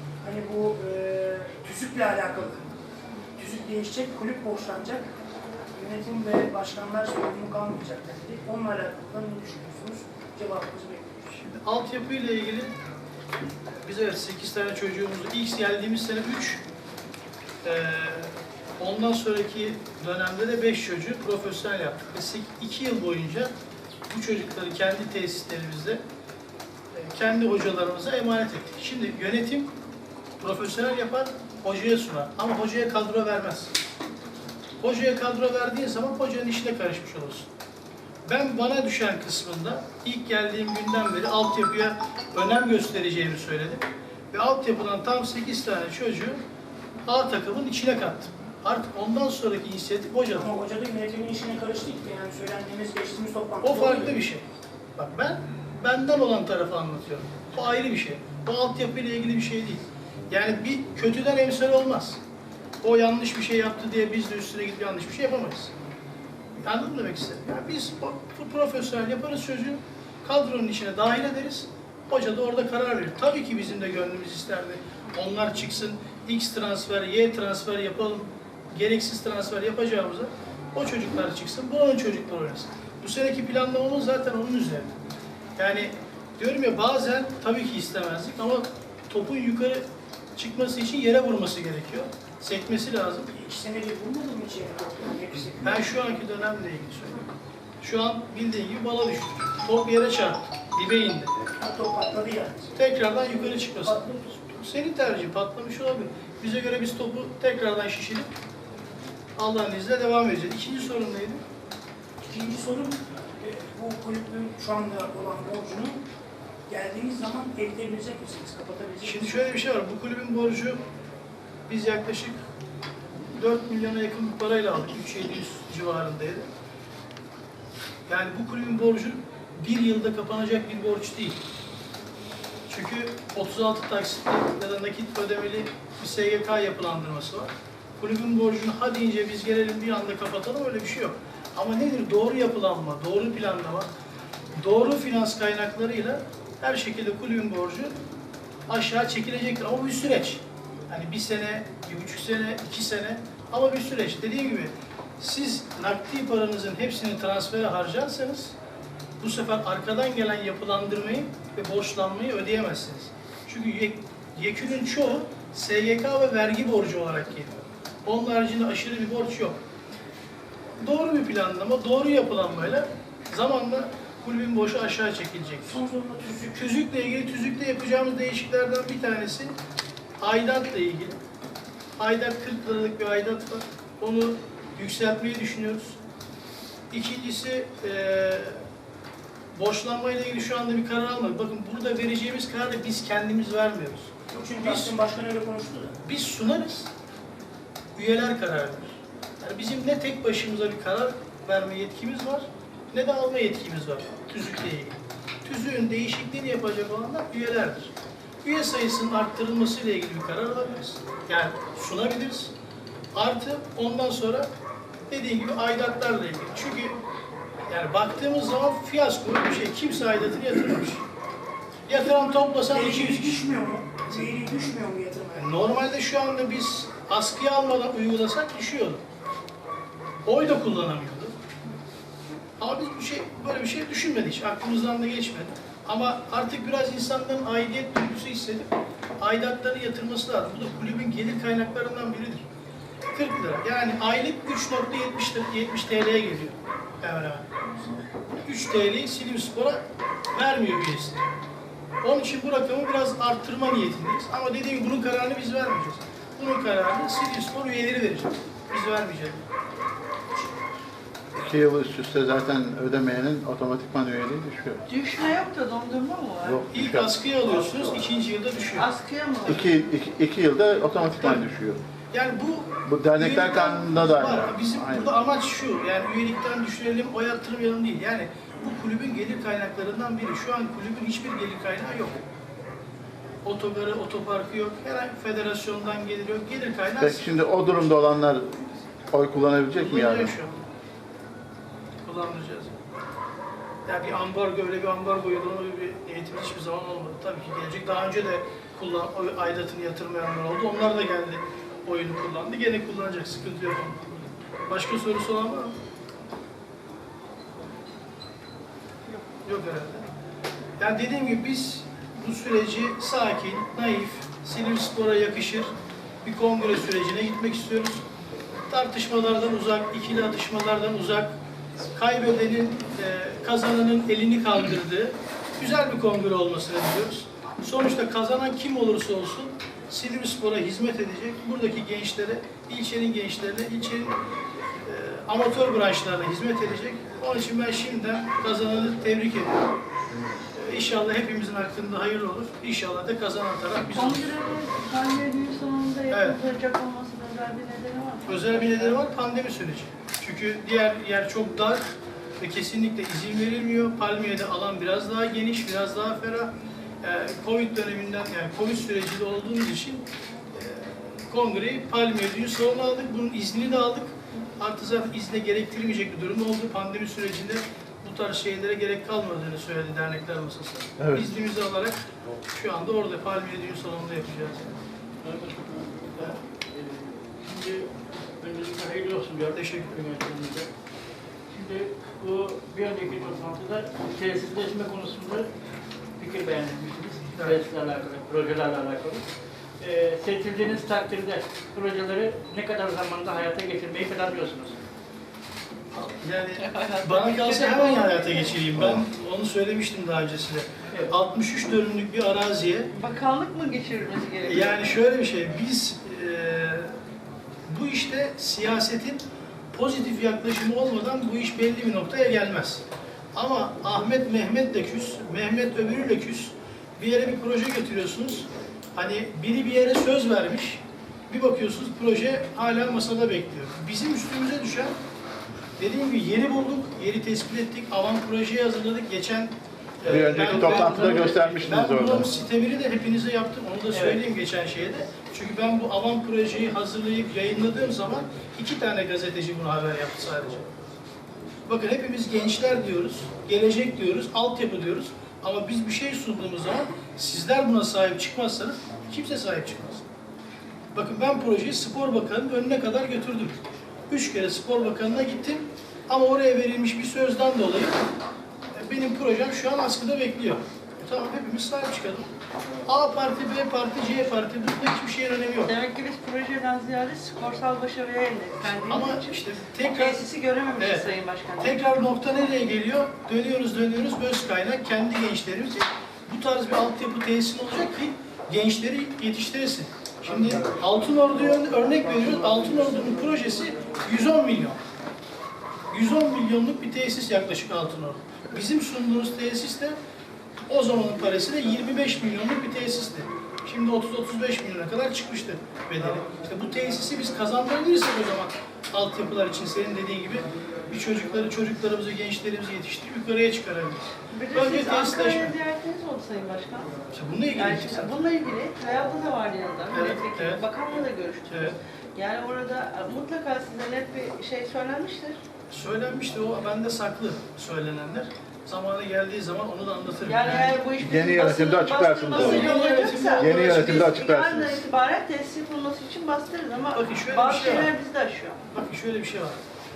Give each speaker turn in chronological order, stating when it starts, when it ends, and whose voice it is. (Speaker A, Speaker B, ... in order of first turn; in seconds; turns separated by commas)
Speaker A: 0.2-2.7, Speaker A: 3.4-5.1, Speaker A: 5.7-11.3, Speaker B: 11.4-12.7, Speaker B: 13.8-16.6, Speaker B: 17.6-23.5, Speaker B: 24.1-26.0, Speaker B: 26.9-29.7, Speaker B: 30.4-33.7, Speaker B: 34.8-37.5, Speaker B: 38.3-46.4, Speaker B: 47.1-50.5, Speaker A: 50.4-54.2, Speaker B: 53.6-54.4, Speaker B: 55.0-62.2, Speaker B: 62.8-65.7, Speaker B: 66.6-85.0, Speaker B: 85.6-89.8, Speaker B: 90.4-93.3, Speaker A: 93.3-96.0, Speaker B: 95.6-97.2, Speaker B: 97.8-101.3, Speaker A: 101.6-102.7, Speaker B: 102.8-108.3, Speaker A: 103.4-104.4, Speaker B: 109.4-111.4, Speaker A: 112.2-116.0, Speaker A: 116.7-119.4, Speaker B: 119.0-120.8, Speaker B: 121.7-122.4, Speaker B: 123.3-126.5, Speaker B: 128.1-131.4, Speaker B: 132.7-143.9, Speaker B: 144.6-147.9, Speaker B: 148.7-158.6, Speaker B: 159.2-169.6, Speaker B: 170.8-175.8, Speaker A: 175.7-176.7, Speaker B: 176.6-179.6, Speaker B: 180.2-181.1, Speaker B: 182.0-186.0, Speaker B: 186.9-188.6, Speaker B: 189.5-194.9, Speaker A: 194.3-195.9, Speaker B: 196.1-196.9, Speaker B: 198.0-207.9, Speaker B: 208.4-212.5, Speaker B: 213.2-214.5, Speaker B: 215.1-217.0, Speaker B: 217.7-221.1, Speaker B: 221.9-223.4, Speaker A: 221.9-225.5, Speaker B: 225.4-229.0, Speaker B: 230.3-231.3, Speaker B: 232.6-238.7, Speaker B: 239.2-242.4, Speaker B: 243.1-249.8, Speaker B: 250.3-251.2, Speaker B: 252.0-259.4, Speaker C: 261.4-264.8, Speaker D: 264.9-266.6, Speaker C: 266.4-267.2, Speaker B: 266.7-268.9, Speaker D: 268.8-269.7, Speaker C: 269.5-271.8, Speaker B: 272.1-282.2, Speaker C: 272.9-275.1, Speaker B: 283.4-287.4, Speaker C: 287.0-290.3, Speaker B: 289.8-290.6, Speaker B: 292.1-292.7, Speaker B: 293.9-305.7, Speaker B: 309.4-310.1, Speaker B: 310.8-315.7, Speaker B: 316.2-318.0, Speaker B: 318.7-321.3, Speaker B: 321.9-334.2, Speaker B: 334.8-339.6, Speaker B: 340.5-344.3, Speaker D: 343.9-349.0, Speaker B: 346.1-346.4, Speaker B: 348.3-372.0, Speaker C: 371.0-371.2, Speaker B: 372.5-374.8, Speaker E: 375.2-380.7, Speaker B: 379.5-379.9, Speaker E: 381.5-385.5, Speaker E: 386.2-389.2, Speaker E: 389.8-394.8, Speaker B: 395.9-402.9, Speaker D: 396.6-398.6, Speaker D: 402.9-405.0, Speaker B: 404.5-406.9, Speaker B: 407.7-412.8, Speaker B: 413.4-424.9, Speaker B: 425.8-440.6, Speaker C: 430.1-432.3, Speaker E: 430.3-431.6, Speaker E: 433.9-434.2, Speaker B: 441.7-450.1, Speaker B: 450.9-458.0, Speaker B: 458.7-462.3, Speaker B: 462.9-465.7, Speaker D: 465.7-471.8, Speaker B: 468.9-470.2, Speaker B: 470.8-471.1, Speaker B: 471.6-484.8, Speaker B: 485.9-490.0, Speaker B: 490.7-505.6, Speaker D: 504.3-507.0, Speaker B: 507.1-508.1, Speaker D: 507.5-515.4, Speaker B: 509.9-510.6, Speaker B: 511.5-511.8, Speaker B: 515.7-520.8, Speaker D: 520.3-528.6, Speaker C: 521.0-522.8, Speaker B: 522.3-524.2, Speaker C: 523.3-524.8, Speaker B: 526.9-527.9, Speaker B: 528.7-529.6